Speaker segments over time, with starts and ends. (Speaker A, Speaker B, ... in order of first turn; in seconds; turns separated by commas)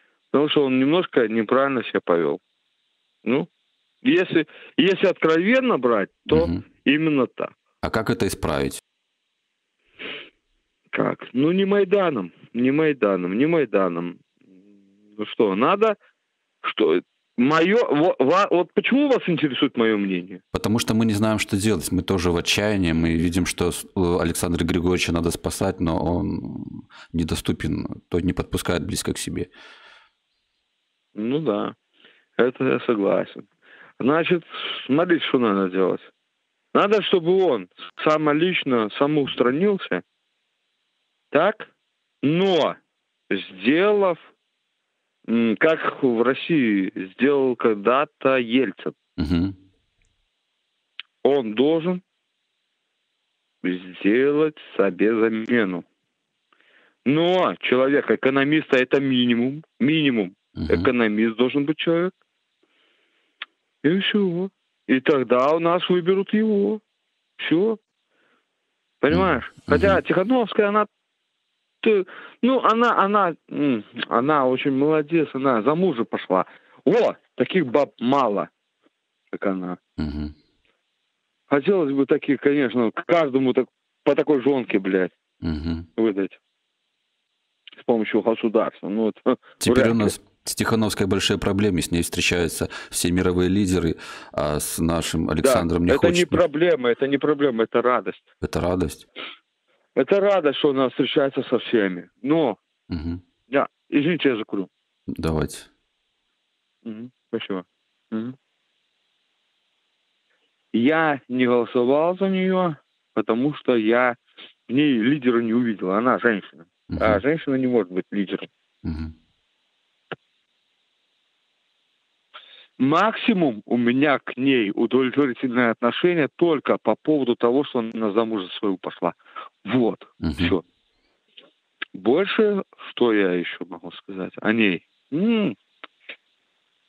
Speaker A: 0.3-2.4, Speaker A: 4.0-7.5, Speaker B: 6.3-6.6, Speaker B: 7.8-8.8, Speaker A: 10.9-14.2, Speaker A: 15.2-15.9, Speaker A: 16.6-20.4, Speaker B: 20.5-29.5, Speaker A: 31.1-31.7, Speaker A: 32.4-33.5, Speaker A: 34.0-36.1, Speaker A: 36.7-40.0, Speaker A: 41.3-41.7, Speaker A: 42.2-42.8, Speaker A: 43.3-44.2, Speaker A: 45.3-48.9, Speaker B: 49.2-49.5, Speaker A: 51.2-52.0, Speaker A: 53.6-55.8, Speaker A: 57.0-62.1, Speaker B: 60.6-60.9, Speaker A: 63.8-66.8, Speaker A: 67.4-67.8, Speaker A: 69.0-70.9, Speaker B: 69.1-70.0, Speaker A: 71.8-78.5, Speaker A: 79.3-79.8, Speaker B: 80.0-80.3, Speaker A: 81.5-85.1, Speaker B: 85.4-85.9, Speaker A: 86.0-86.4, Speaker A: 87.8-90.1, Speaker B: 89.6-96.4, Speaker A: 95.4-98.2, Speaker B: 98.4-99.0, Speaker A: 99.9-102.6, Speaker B: 102.9-103.2, Speaker A: 103.5-104.7, Speaker B: 105.2-105.7, Speaker A: 106.8-108.3, Speaker A: 110.7-114.2, Speaker A: 114.7-118.5, Speaker B: 116.9-117.2, Speaker B: 118.8-119.1, Speaker A: 122.8-130.6, Speaker B: 130.2-130.6, Speaker A: 131.9-135.5